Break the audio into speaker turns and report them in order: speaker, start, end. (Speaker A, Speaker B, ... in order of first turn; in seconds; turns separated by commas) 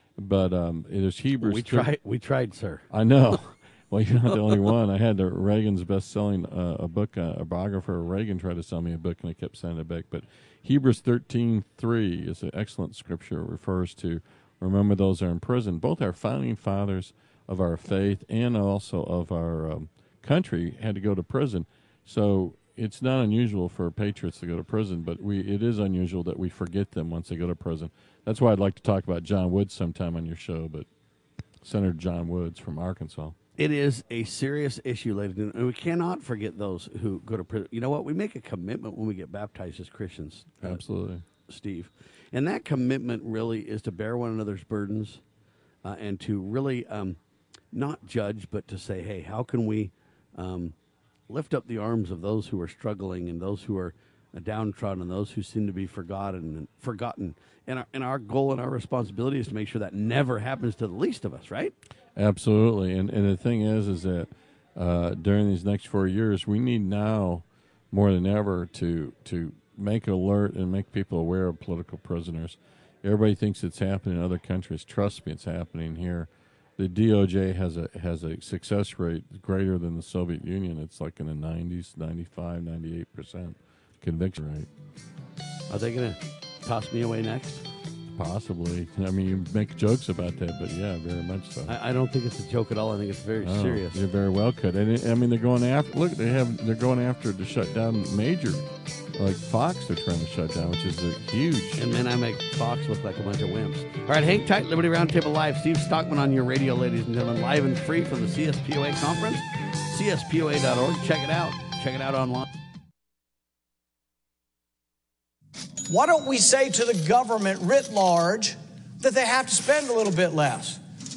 Speaker A: 0.2-1.9, Speaker B: 1.4-2.9, Speaker A: 2.9-30.9, Speaker A: 31.6-33.4, Speaker B: 33.6-40.8, Speaker A: 40.6-41.2, Speaker B: 41.5-45.2, Speaker B: 45.9-47.2, Speaker B: 47.7-50.8, Speaker B: 51.3-61.7, Speaker A: 62.2-84.7, Speaker B: 85.7-87.6, Speaker A: 88.2-91.7, Speaker B: 91.7-94.0, Speaker A: 93.4-98.6, Speaker A: 99.2-102.0, Speaker B: 101.8-112.5, Speaker C: 115.9-120.8